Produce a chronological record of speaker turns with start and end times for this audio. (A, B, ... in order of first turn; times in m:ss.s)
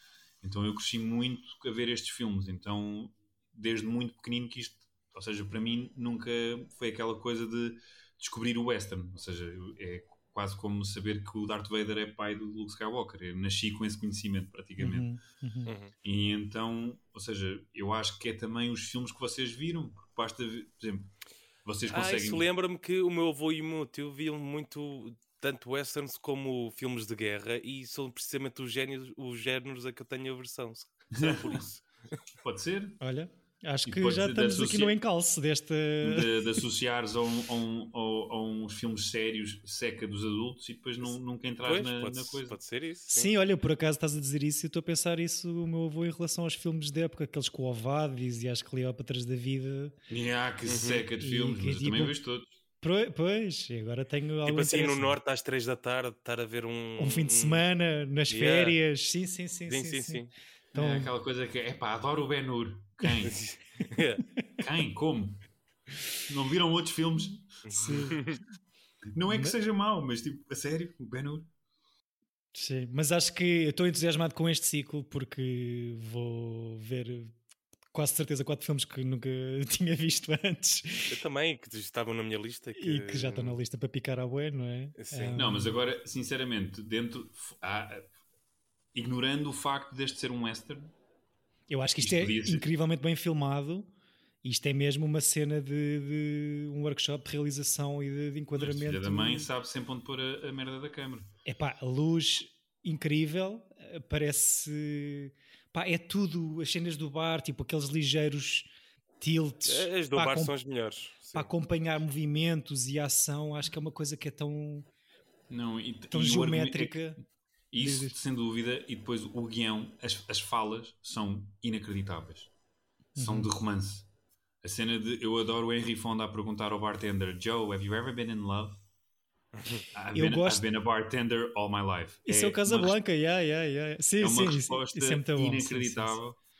0:00.4-0:15.1 A
0:14.8-0:15.7 B
0:15.7-0:15.9 C
0:16.0-0:21.1 A
0:21.6-0:22.4 A
0:21.9-0:31.8 C
0:31.1-0:31.6 A
0:32.4-0:33.0 A
0:33.0-0:36.4 B
0:33.8-0:35.0 A
0:36.0-0:42.6 A
0:41.6-0:43.3 C
0:43.1-0:49.9 B
0:50.1-0:52.5 A
0:50.6-0:51.0 C
0:51.2-0:52.2 B
0:52.8-0:55.2 B
0:54.4-0:57.6 C
0:57.0-1:01.1 B
0:58.3-0:58.8 C
0:59.7-1:00.3 C
1:00.7-1:03.4 A
1:03.2-1:04.2 C
1:04.6-1:05.4 A
1:06.3-1:07.4 A
1:07.6-1:08.4 C
1:07.7-1:08.2 B
1:09.1-1:11.5 A
1:09.3-1:09.6 B
1:12.5-1:17.4 B
1:17.9-1:21.2 B
1:21.1-1:23.6 C
1:22.8-1:25.7 B
1:25.0-1:25.4 C
1:25.3-1:28.1 A
1:28.9-1:30.9 A
1:31.7-1:33.9 B
1:32.0-1:32.6 A
1:34.4-1:39.5 B
1:38.6-1:41.3 A
1:41.4-1:48.7 B
1:49.2-1:50.5 B
1:49.6-1:51.5 C
1:51.3-1:54.9 B
1:55.5-1:57.0 A
1:56.1-1:57.2 B
1:57.7-2:02.5 A
1:57.8-1:58.2 B
2:03.1-2:03.5 B
2:03.2-2:04.1 A
2:04.6-2:08.8 A
2:09.6-2:09.8 C
2:09.9-2:13.0 A
2:10.1-2:10.6 B
2:12.2-2:16.2 B
2:14.2-2:16.4 A